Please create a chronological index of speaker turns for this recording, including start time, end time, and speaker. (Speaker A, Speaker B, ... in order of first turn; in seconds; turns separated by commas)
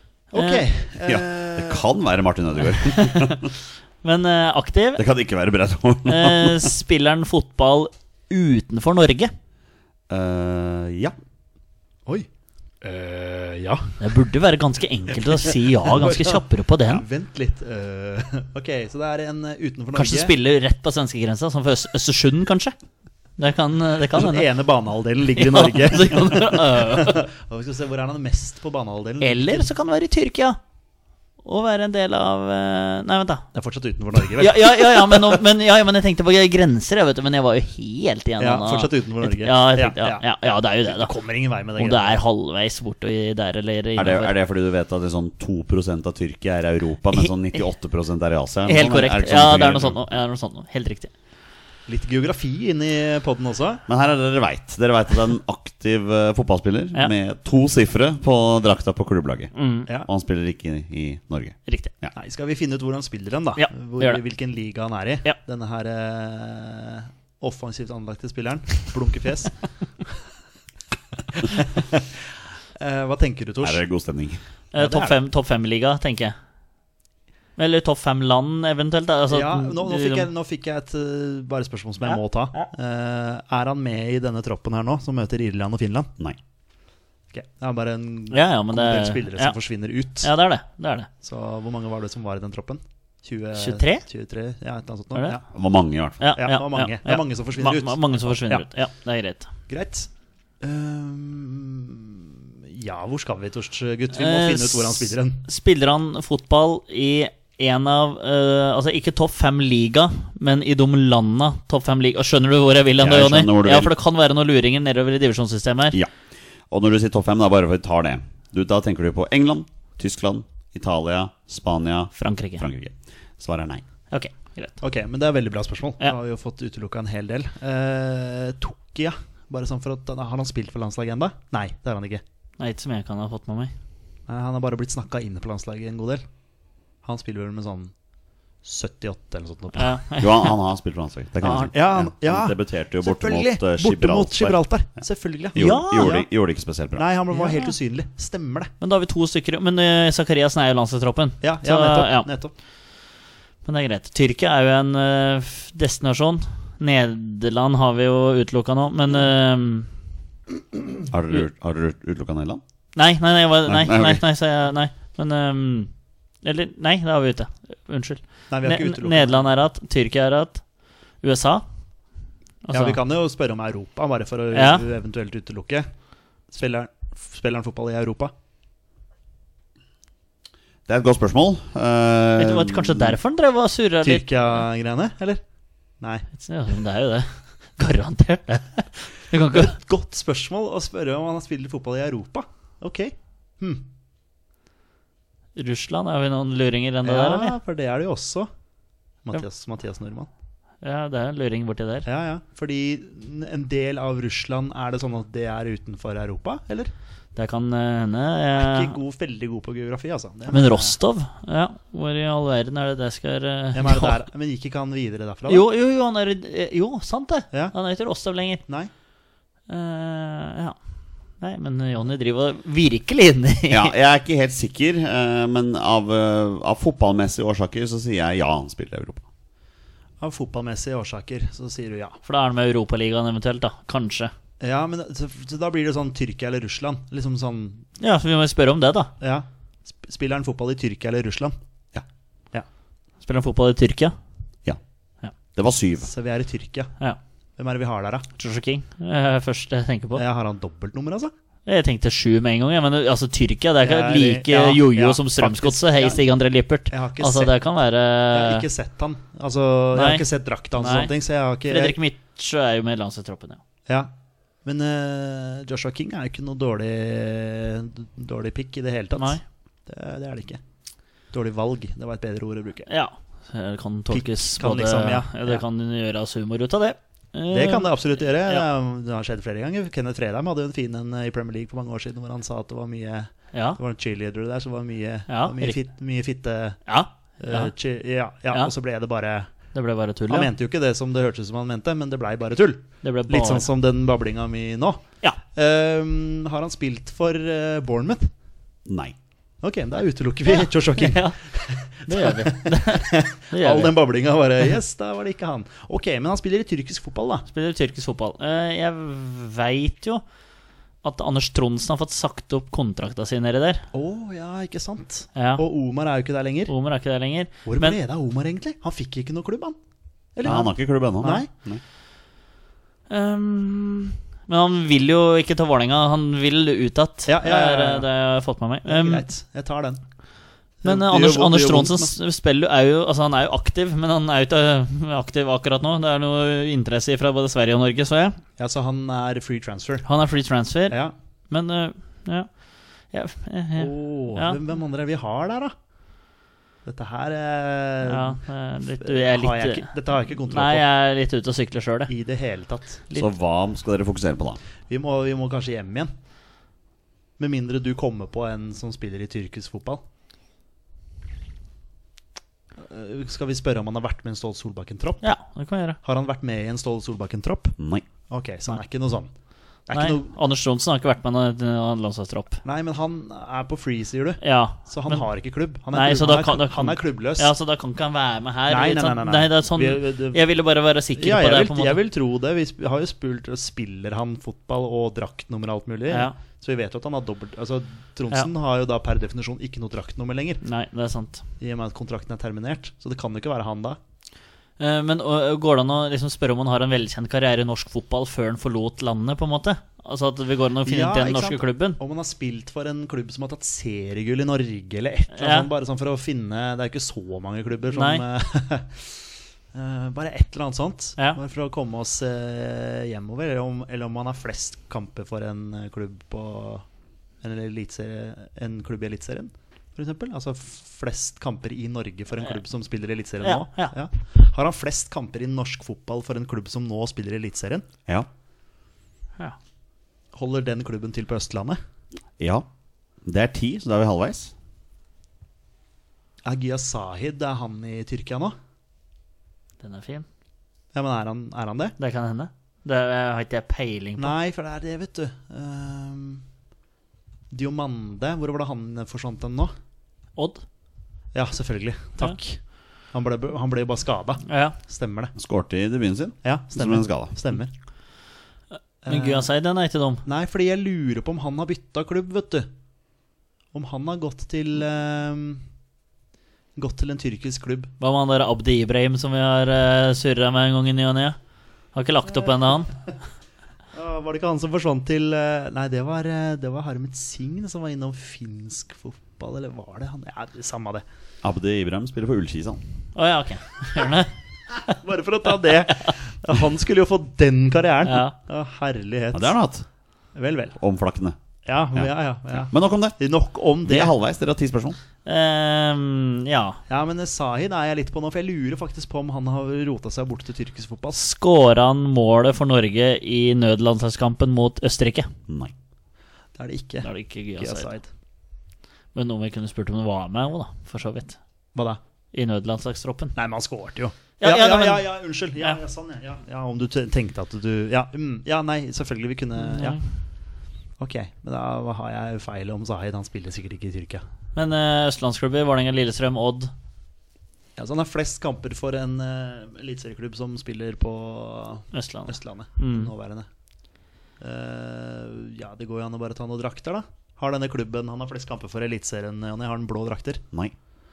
Speaker A: 0.3-0.6, Speaker B: 0.3-1.8, Speaker C: 1.0-3.5, Speaker A: 2.7-3.5, Speaker A: 4.0-5.0, Speaker C: 5.0-6.7, Speaker A: 6.0-9.3, Speaker C: 10.1-11.1, Speaker B: 12.8-14.0, Speaker A: 14.0-17.0, Speaker B: 15.4-20.3, Speaker A: 19.9-22.7, Speaker A: 23.4-24.5, Speaker B: 24.1-29.7, Speaker A: 25.3-27.2, Speaker A: 29.2-30.6, Speaker A: 31.4-33.5, Speaker B: 33.5-35.4, Speaker A: 34.3-41.1, Speaker B: 38.4-40.2, Speaker B: 40.8-42.2, Speaker A: 41.8-44.3, Speaker C: 44.0-50.1, Speaker A: 48.7-51.1, Speaker B: 51.9-53.8, Speaker C: 53.9-59.5, Speaker A: 59.5-59.9, Speaker C: 60.0-62.1, Speaker A: 61.7-61.9, Speaker B: 62.1-69.5, Speaker A: 63.6-64.2, Speaker B: 71.3-72.1, Speaker B: 72.8-73.8, Speaker C: 73.6-74.4, Speaker A: 74.7-76.3, Speaker B: 74.8-75.1, Speaker A: 77.6-80.3, Speaker B: 79.3-86.1, Speaker A: 82.1-82.7, Speaker B: 87.3-90.3, Speaker A: 88.3-89.5, Speaker A: 90.2-91.1, Speaker B: 91.2-95.4, Speaker A: 93.5-94.0, Speaker C: 95.5-96.2, Speaker A: 96.2-99.5, Speaker B: 96.3-98.7, Speaker B: 99.7-100.1, Speaker B: 100.6-105.4, Speaker A: 104.1-116.0, Speaker C: 113.0-113.9, Speaker C: 116.7-123.8, Speaker A: 122.2-122.6, Speaker A: 124.1-124.8, Speaker B: 124.8-132.2, Speaker A: 132.6-133.7, Speaker B: 134.3-136.2, Speaker B: 137.0-137.9, Speaker B: 138.6-140.0, Speaker A: 139.7-140.5, Speaker C: 140.2-144.6, Speaker B: 141.4-146.3, Speaker C: 145.5-147.1, Speaker A: 145.6-146.2, Speaker B: 146.9-148.7, Speaker A: 148.8-152.3, Speaker B: 151.4-152.5, Speaker A: 153.6-159.9, Speaker C: 161.1-162.6, Speaker A: 162.9-165.9, Speaker C: 163.6-164.2, Speaker A: 166.4-170.6, Speaker B: 168.5-169.5, Speaker A: 171.2-171.6, Speaker A: 172.6-173.0, Speaker B: 172.7-175.9, Speaker A: 174.5-174.8, Speaker B: 176.5-178.3, Speaker C: 180.9-183.2, Speaker A: 182.4-184.4, Speaker B: 184.0-185.4, Speaker B: 186.0-186.3, Speaker A: 186.4-189.7, Speaker B: 189.5-193.8, Speaker A: 195.5-197.6, Speaker B: 197.0-198.5, Speaker B: 199.2-200.3, Speaker A: 200.8-202.1, Speaker B: 202.0-206.9, Speaker A: 207.3-208.9, Speaker B: 208.6-211.0, Speaker A: 210.5-214.2, Speaker B: 213.7-215.7, Speaker A: 215.5-218.6, Speaker A: 219.7-220.8, Speaker A: 221.4-223.9, Speaker C: 223.7-229.2, Speaker B: 230.2-232.2, Speaker A: 232.2-234.3, Speaker B: 234.6-237.8, Speaker A: 238.0-239.1, Speaker B: 239.2-241.5, Speaker A: 243.2-244.1, Speaker C: 245.5-246.1, Speaker B: 246.0-246.9, Speaker B: 247.6-248.2, Speaker A: 248.4-250.2, Speaker B: 250.1-251.3, Speaker A: 251.7-258.6, Speaker B: 253.8-256.2, Speaker B: 256.9-257.5, Speaker B: 258.3-261.9, Speaker A: 259.9-261.1, Speaker A: 261.6-263.6, Speaker B: 264.6-270.6, Speaker A: 269.1-269.4, Speaker B: 271.3-272.9, Speaker A: 272.9-278.6, Speaker B: 274.1-275.6, Speaker B: 277.5-286.8, Speaker A: 283.5-283.8, Speaker A: 285.3-285.8, Speaker A: 286.9-287.7, Speaker B: 287.4-289.5, Speaker A: 289.7-290.5, Speaker B: 290.3-298.3, Speaker A: 293.0-293.7, Speaker C: 298.9-299.1, Speaker B: 299.6-307.4, Speaker A: 300.5-301.4, Speaker A: 302.1-304.0, Speaker A: 307.5-310.2, Speaker A: 311.0-313.9, Speaker B: 313.9-316.7, Speaker A: 315.4-315.6, Speaker A: 316.7-318.0, Speaker B: 317.6-319.8, Speaker B: 320.4-321.5, Speaker C: 320.4-321.8, Speaker A: 323.1-329.2, Speaker B: 327.2-328.1, Speaker B: 328.8-330.0, Speaker B: 330.8-332.1, Speaker A: 330.8-338.4, Speaker B: 338.6-340.1, Speaker A: 340.1-344.6, Speaker B: 340.9-341.1, Speaker B: 343.8-345.7, Speaker B: 346.8-348.4, Speaker A: 348.0-352.1, Speaker B: 349.0-350.8, Speaker B: 352.1-353.0, Speaker C: 353.1-354.6, Speaker B: 354.9-356.1, Speaker B: 357.4-360.0, Speaker B: 362.8-365.3, Speaker A: 365.2-366.0, Speaker B: 366.0-367.7, Speaker C: 367.8-368.0, Speaker B: 368.3-369.3, Speaker B: 369.9-370.2, Speaker A: 369.9-372.6, Speaker B: 372.6-377.5, Speaker A: 374.4-375.3, Speaker A: 375.9-382.0, Speaker B: 378.7-380.4, Speaker B: 381.2-390.6, Speaker A: 386.1-386.3, Speaker A: 390.6-391.4, Speaker B: 391.6-394.0, Speaker A: 394.8-402.0, Speaker B: 400.8-409.2, Speaker A: 405.3-405.7, Speaker A: 407.9-408.2, Speaker B: 409.7-416.9, Speaker B: 417.4-427.8, Speaker A: 423.4-423.9, Speaker B: 430.3-431.8, Speaker C: 432.4-432.6, Speaker C: 433.2-434.5, Speaker B: 436.4-438.5, Speaker A: 439.8-440.2, Speaker B: 440.9-441.9, Speaker A: 442.0-444.3, Speaker B: 444.2-446.4, Speaker B: 447.5-449.7, Speaker A: 450.4-450.6, Speaker B: 451.3-455.3, Speaker A: 454.4-454.8, Speaker C: 455.4-457.3, Speaker B: 456.4-457.7, Speaker B: 459.0-459.5, Speaker A: 459.1-460.2, Speaker B: 460.2-462.7, Speaker B: 463.7-465.6, Speaker B: 466.8-467.9, Speaker A: 468.0-471.4, Speaker A: 471.9-472.9, Speaker B: 473.9-481.0, Speaker C: 481.4-482.8, Speaker A: 483.1-484.3, Speaker B: 484.9-489.5, Speaker A: 488.0-488.3, Speaker C: 489.3-489.9, Speaker B: 490.3-490.8, Speaker C: 490.8-491.4, Speaker B: 491.6-494.1, Speaker C: 491.9-493.2, Speaker C: 493.8-495.0, Speaker A: 495.2-496.8, Speaker B: 496.9-501.2, Speaker A: 501.1-505.3, Speaker C: 505.5-505.7, Speaker B: 506.6-508.1, Speaker A: 507.0-507.9, Speaker A: 509.1-511.4, Speaker B: 511.7-512.0, Speaker A: 512.3-513.3, Speaker B: 513.3-520.0, Speaker A: 514.4-515.1, Speaker A: 519.6-520.0, Speaker B: 521.0-524.2, Speaker A: 524.5-526.7, Speaker B: 527.8-533.5, Speaker A: 531.9-533.1, Speaker B: 534.4-540.4